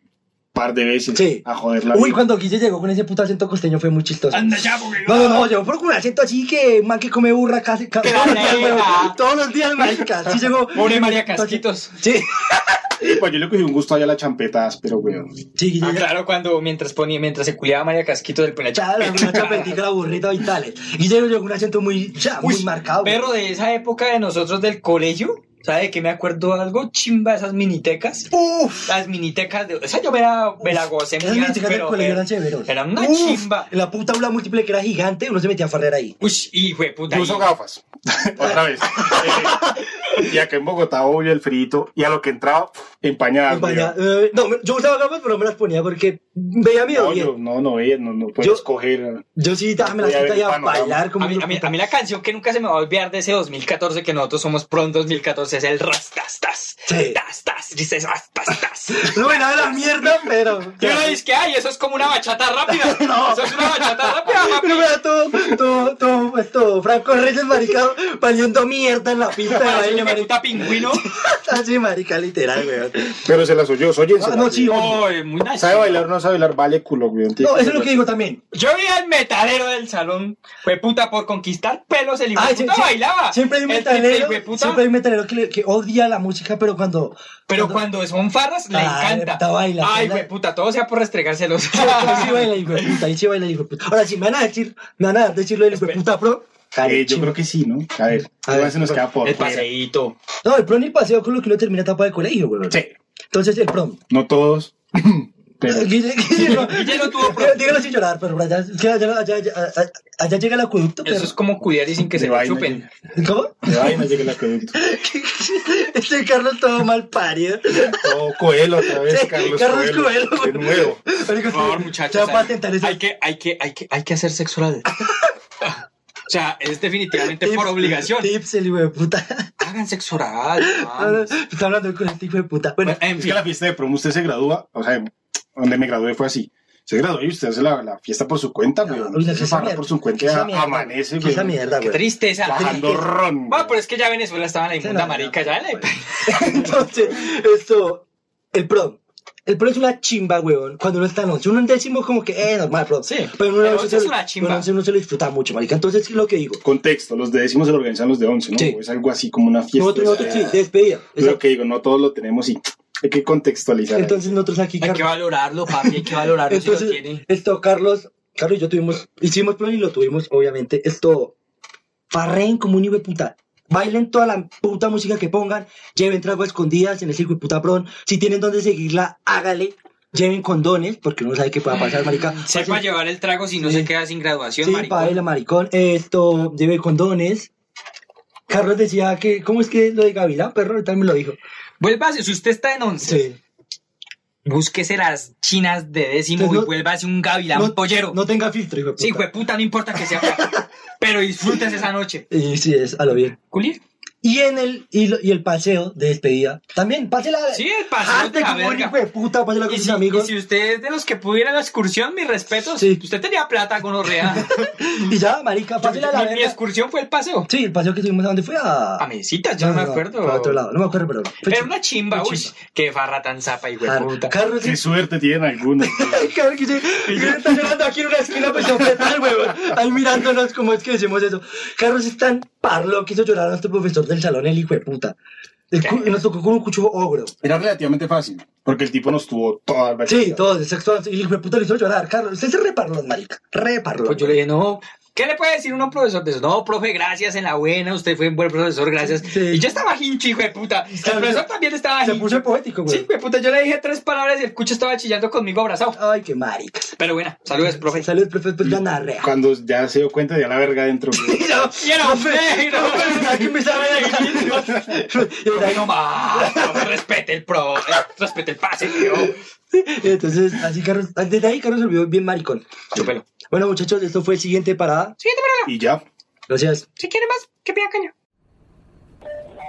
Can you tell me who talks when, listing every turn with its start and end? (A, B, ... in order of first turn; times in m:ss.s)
0:00.5-0:02.2 A
0:01.1-0:13.0 B
0:04.3-0:05.5 C
0:08.0-0:09.2 C
0:10.5-0:12.0 C
0:13.0-0:15.4 A
0:15.5-0:16.1 B
0:15.8-0:19.8 C
0:18.7-0:23.3 B
0:22.4-0:28.3 C
0:28.3-0:28.9 B
0:28.9-0:33.7 C
0:30.6-0:36.2 B
0:36.2-0:37.5 C
0:37.1-0:43.9 A
0:38.4-0:40.2 B
0:43.5-0:47.3 B
0:46.9-0:49.2 A
0:49.4-0:51.8 B
0:49.8-0:51.0 A
0:51.2-1:00.2 C
0:56.9-0:57.2 B
0:58.9-1:01.2 B
1:00.8-1:05.0 C
1:02.7-1:13.2 B
1:09.4-1:11.1 C
1:13.2-1:14.9 A
1:14.2-1:15.0 B
1:14.7-1:16.0 C
1:15.6-1:18.1 A
1:17.4-1:18.4 B
1:18.5-1:24.8 C
1:22.4-1:27.8 B
1:27.5-1:33.0 C
1:28.7-1:30.3 B
1:31.7-1:37.4 B
1:35.7-1:36.0 C
1:36.8-1:39.7 A
1:38.3-1:38.9 B
1:39.2-1:40.2 C
1:40.4-1:42.8 B
1:43.3-1:44.0 B
1:44.1-1:46.0 A
1:45.6-1:51.3 B
1:46.3-1:47.7 C
1:51.0-1:52.8 C
1:52.1-1:52.9 A
1:53.1-1:54.1 B
1:53.6-1:54.8 A
1:54.7-1:58.2 B
1:57.9-2:01.0 A
1:58.9-2:03.0 B
2:01.5-2:04.9 C
2:05.0-2:05.3 B
2:05.6-2:08.3 C
2:07.2-2:09.5 B
2:09.6-2:11.3 C
2:10.6-2:13.0 B
2:12.8-2:13.4 C
2:13.2-2:21.6 A
2:18.8-2:22.8 B
2:21.8-2:26.7 C
2:22.4-2:23.8 A
2:24.8-2:36.6 B
2:33.0-2:34.7 C
2:36.6-2:40.6 A
2:39.7-2:41.4 B
2:41.2-2:44.3 A
2:43.9-2:45.1 B
2:44.8-2:47.2 C
2:45.8-2:51.3 B
2:52.1-3:02.8 B
3:01.8-3:05.2 C
3:03.6-3:03.9 B
3:04.6-3:07.5 B
3:08.5-3:11.4 B
3:11.8-3:13.2 C
3:13.0-3:13.4 B
3:14.4-3:18.2 C
3:16.4-3:16.7 B
3:17.5-3:19.2 B
3:19.0-3:22.2 C
3:20.0-3:20.6 B
3:22.3-3:23.4 B
3:23.3-3:23.8 C
3:24.2-3:30.3 B
3:27.5-3:29.0 C
3:29.6-3:35.1 C
3:32.7-3:33.0 B
3:34.3-3:36.6 B
3:35.8-3:37.5 C
3:37.5-3:39.0 B
3:39.0-3:40.6 C
3:39.6-3:42.5 B
3:41.4-3:44.3 C
3:43.8-3:44.8 B
3:44.6-3:46.3 A
3:45.8-3:55.2 B
3:47.0-3:47.7 C
3:48.6-3:48.8 C
3:55.7-3:57.3 B
3:55.8-3:56.2 C
3:57.4-4:00.4 A
4:00.0-4:04.4 B
4:04.0-4:16.0 C
4:09.0-4:09.7 B
4:10.9-4:11.4 B
4:12.0-4:13.0 B
4:16.0-4:17.0 B
4:17.0-4:18.1 C
4:17.7-4:19.3 B
4:18.6-4:21.5 A
4:21.1-4:26.9 B
4:21.8-4:29.4 C
4:29.7-4:35.1 B
4:32.9-4:33.2 C
4:35.2-4:35.7 C
4:35.6-4:36.0 A
4:36.5-4:36.9 B
4:37.0-4:38.1 C